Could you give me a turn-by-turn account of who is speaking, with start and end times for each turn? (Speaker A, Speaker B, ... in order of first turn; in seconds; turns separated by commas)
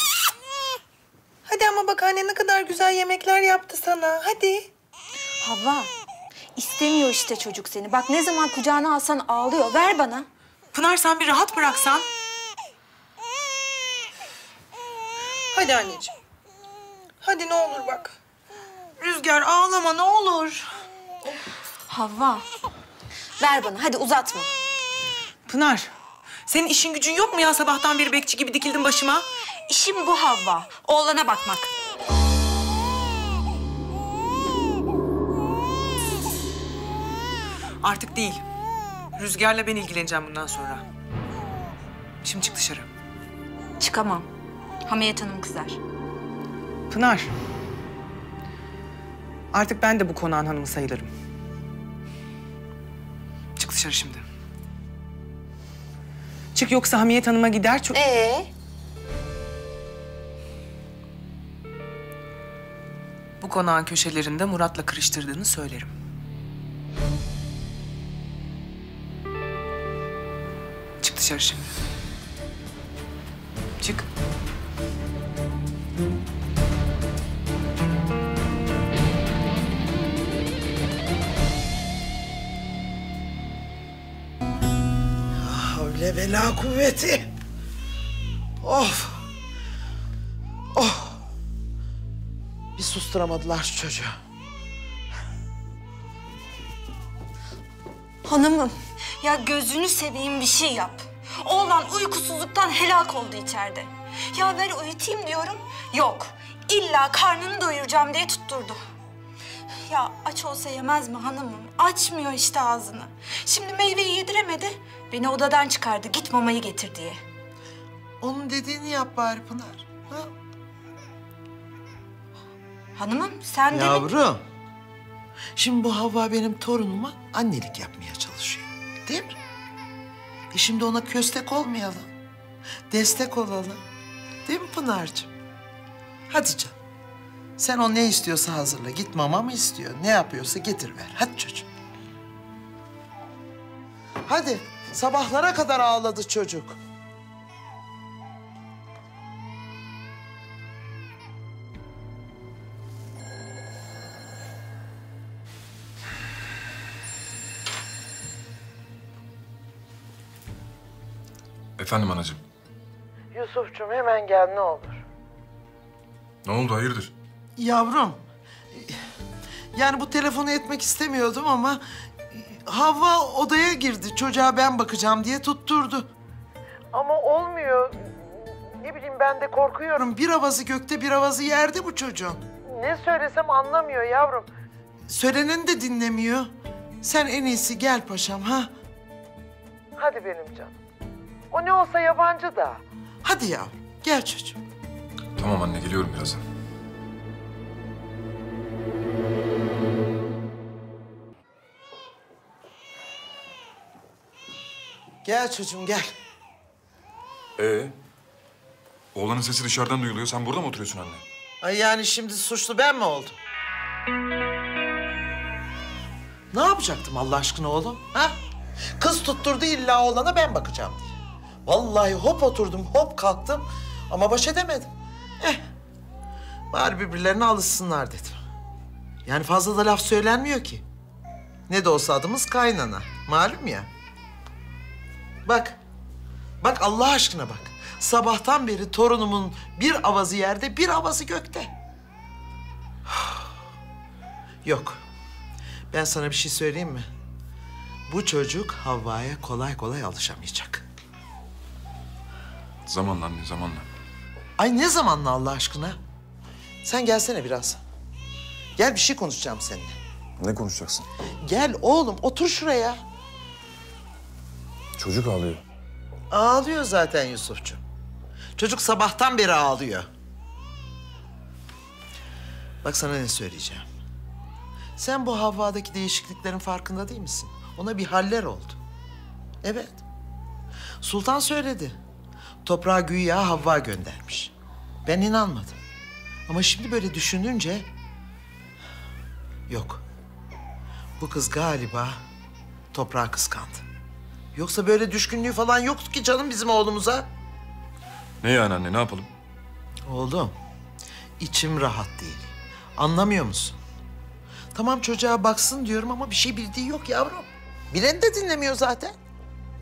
Speaker A: 1.5-4.7, Speaker B: 5.4-5.9, Speaker B: 6.5-10.3, Speaker A: 10.7-12.1, Speaker A: 15.5-16.1, Speaker A: 17.2-18.1, Speaker A: 19.2-20.7, Speaker B: 21.9-22.4, Speaker B: 23.4-24.5, Speaker A: 25.5-25.9, Speaker A: 26.5-29.2, Speaker B: 29.7-31.7, Speaker A: 37.8-38.4, Speaker A: 39.2-40.9, Speaker A: 42.2-42.9, Speaker B: 43.8-44.3, Speaker B: 44.8-45.8, Speaker A: 46.9-47.3, Speaker A: 49.5-51.1, Speaker A: 53.6-54.2, Speaker A: 56.5-58.0, Speaker A: 63.4-65.9, Speaker A: 71.0-71.7, Speaker A: 73.8-74.0, Speaker C: 85.4-87.3, Speaker C: 88.6-89.3, Speaker C: 90.7-91.2, Speaker C: 92.8-94.2, Speaker B: 98.2-108.8, Speaker B: 109.9-117.2, Speaker C: 118.2-120.3, Speaker B: 123.0-124.1, Speaker C: 123.7-124.4, Speaker C: 125.5-129.4, Speaker C: 130.5-132.1, Speaker C: 132.9-133.8, Speaker C: 134.4-135.3, Speaker C: 136.3-136.7, Speaker C: 137.6-141.7, Speaker C: 144.3-146.8, Speaker D: 161.8-162.4, Speaker C: 163.3-165.0, Speaker D: 166.4-167.1, Speaker C: 167.6-168.2, Speaker C: 169.7-176.1, Speaker C: 176.9-184.5, Speaker C: 185.1-188.7, Speaker C: 190.0-190.8, Speaker C: 191.5-194.6, Speaker D: 195.4-196.4, Speaker C: 205.2-206.1, Speaker D: 207.6-207.9, Speaker D: 209.1-211.2, Speaker C: 211.6-213.3, Speaker C: 216.5-218.3, Speaker C: 219.0-221.1, Speaker C: 221.7-225.6, Speaker C: 226.7-228.4, Speaker C: 229.2-230.8, Speaker C: 231.7-233.9, Speaker C: 235.4-235.8, Speaker C: 236.6-241.7, Speaker C: 243.1-243.4, Speaker C: 244.6-245.0, Speaker C: 245.9-247.0, Speaker C: 248.1-250.8, Speaker D: 252.8-253.8, Speaker C: 254.6-256.0, Speaker C: 256.8-257.8, Speaker C: 258.8-259.9, Speaker D: 260.4-261.1, Speaker C: 261.4-263.0, Speaker D: 265.0-265.6, Speaker C: 266.3-267.8, Speaker C: 268.6-270.1, Speaker C: 272.8-273.9, Speaker C: 275.0-278.8, Speaker C: 279.6-280.0, Speaker C: 281.0-281.9, Speaker C: 282.6-284.5, Speaker C: 285.1-285.8, Speaker C: 286.5-287.9, Speaker C: 289.7-290.0, Speaker C: 291.2-292.2, Speaker C: 292.9-293.8, Speaker C: 294.5-297.3, Speaker D: 298.4-299.3, Speaker C: 300.0-300.5, Speaker C: 301.4-303.8, Speaker C: 304.7-309.2